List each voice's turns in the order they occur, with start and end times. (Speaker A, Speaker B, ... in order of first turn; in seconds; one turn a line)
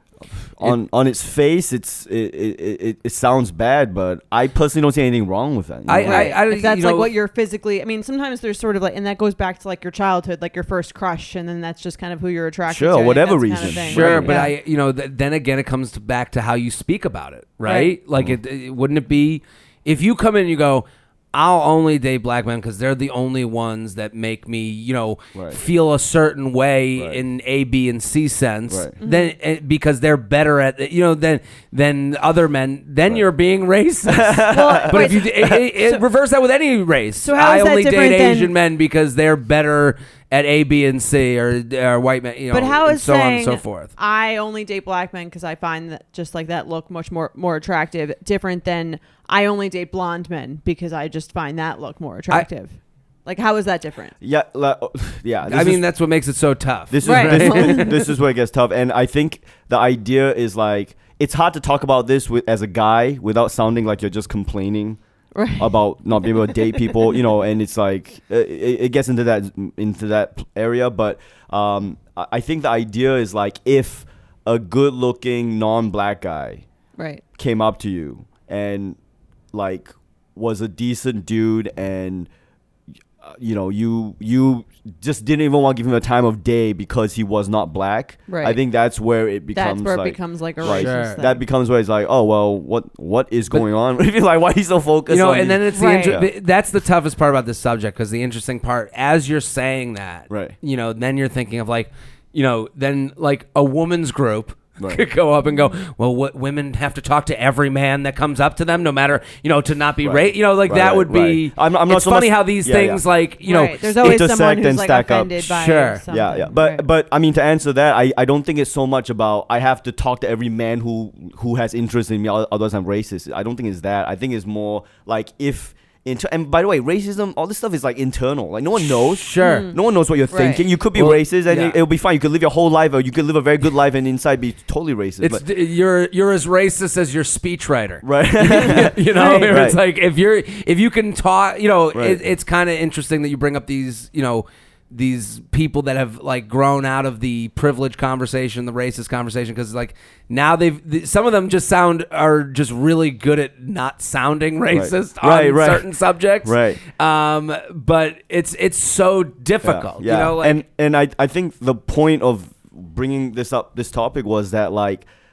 Speaker A: 0.3-6.3
Speaker B: 5.9-7.1
Speaker C: 6.0-14.6
Speaker A: 12.7-14.5
Speaker B: 13.8-43.9
Speaker C: 17.6-17.9
Speaker A: 28.7-28.9
Speaker C: 29.0-29.3
Speaker A: 34.1-35.6
Speaker C: 34.5-36.0
Speaker C: 37.2-38.5
Speaker C: 42.5-54.1
Speaker A: 54.2-55.8
Speaker B: 55.5-58.0
Speaker A: 56.9-65.0
Speaker C: 57.0-58.0
Speaker C: 65.3-65.8
Speaker A: 65.6-76.6
Speaker C: 66.4-66.9
Speaker C: 77.0-77.2
Speaker A: 77.4-79.0
Speaker A: 79.5-82.3
Speaker A: 83.2-96.3
Speaker C: 88.3-88.6
Speaker C: 89.5-91.4
Speaker B: 90.6-91.2
Speaker B: 95.1-113.8
Speaker C: 95.7-96.2
Speaker A: 100.3-100.5
Speaker A: 110.0-113.0
Speaker C: 113.4-116.8
Speaker A: 114.0-135.4
Speaker B: 115.5-116.0
Speaker B: 128.8-129.7
Speaker C: 129.4-129.8
Speaker C: 130.3-130.7
Speaker B: 130.9-131.8
Speaker B: 135.2-160.6
Speaker A: 138.0-139.8
Speaker C: 139.2-139.7
Speaker A: 141.9-142.2
Speaker A: 154.7-155.9
Speaker A: 156.4-156.8
Speaker A: 159.6-165.1